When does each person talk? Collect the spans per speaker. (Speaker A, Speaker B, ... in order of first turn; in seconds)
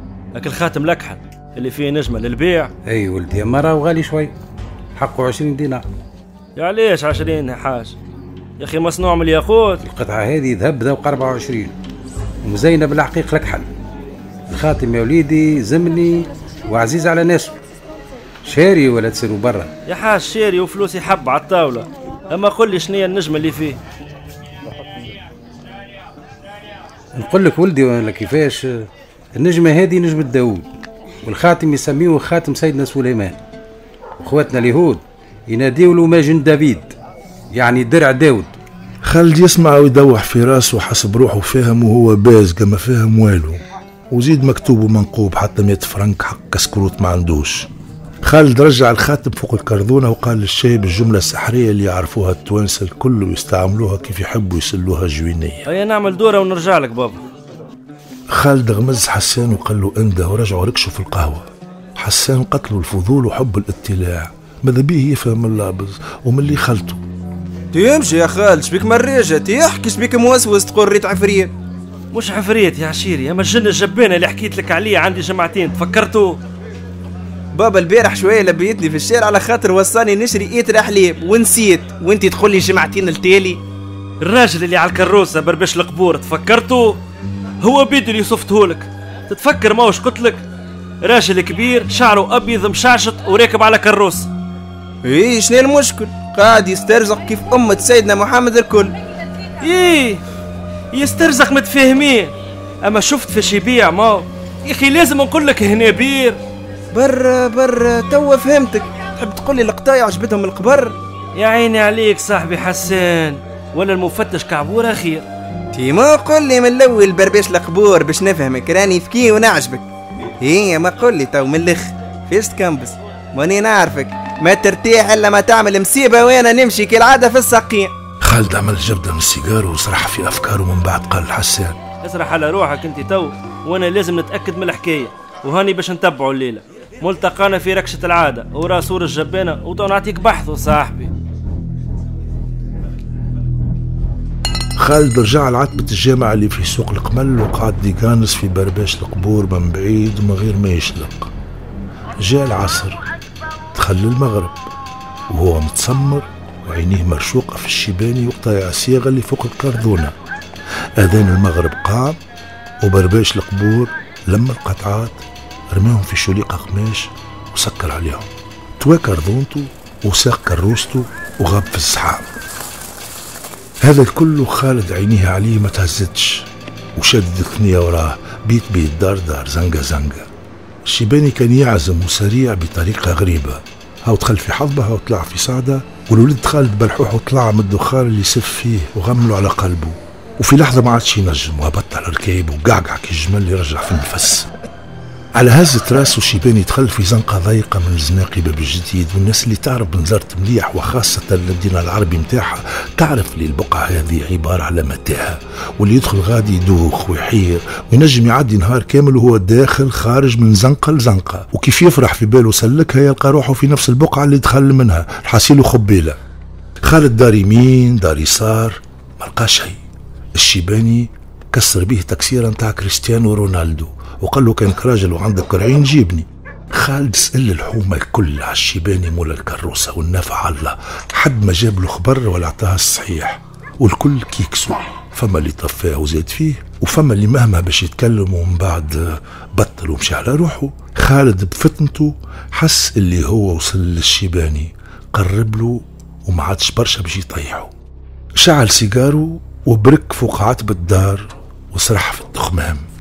Speaker A: 0.3-2.7, 6.6-8.0, 8.6-9.8, 19.9-23.8, 55.7-57.2, 72.1-76.4, 84.2-87.0, 87.6-90.5, 91.0-94.3, 99.6-100.2, 100.9-106.4, 111.3-115.3, 132.0-141.1
Speaker B: 2.9-4.3, 5.0-5.8, 9.8-11.7, 12.4-13.7, 14.5-17.5, 18.4-19.7, 27.1-30.7, 31.2-33.4, 34.2-36.9, 37.5-38.6
Speaker C: 39.0-47.7, 48.2-55.7, 58.3-67.0, 128.2-131.8, 144.8-151.3, 152.2-153.0, 153.7-154.6, 155.3-160.2, 161.0-162.2, 162.8-172.3, 173.8-180.3, 180.8-194.5, 195.4-216.2, 216.8-219.8, 220.3-247.7, 248.4-252.9
Speaker D: 67.7-71.5, 77.5-83.6, 95.0-98.9, 106.9-111.0, 115.7-119.9, 120.4-127.9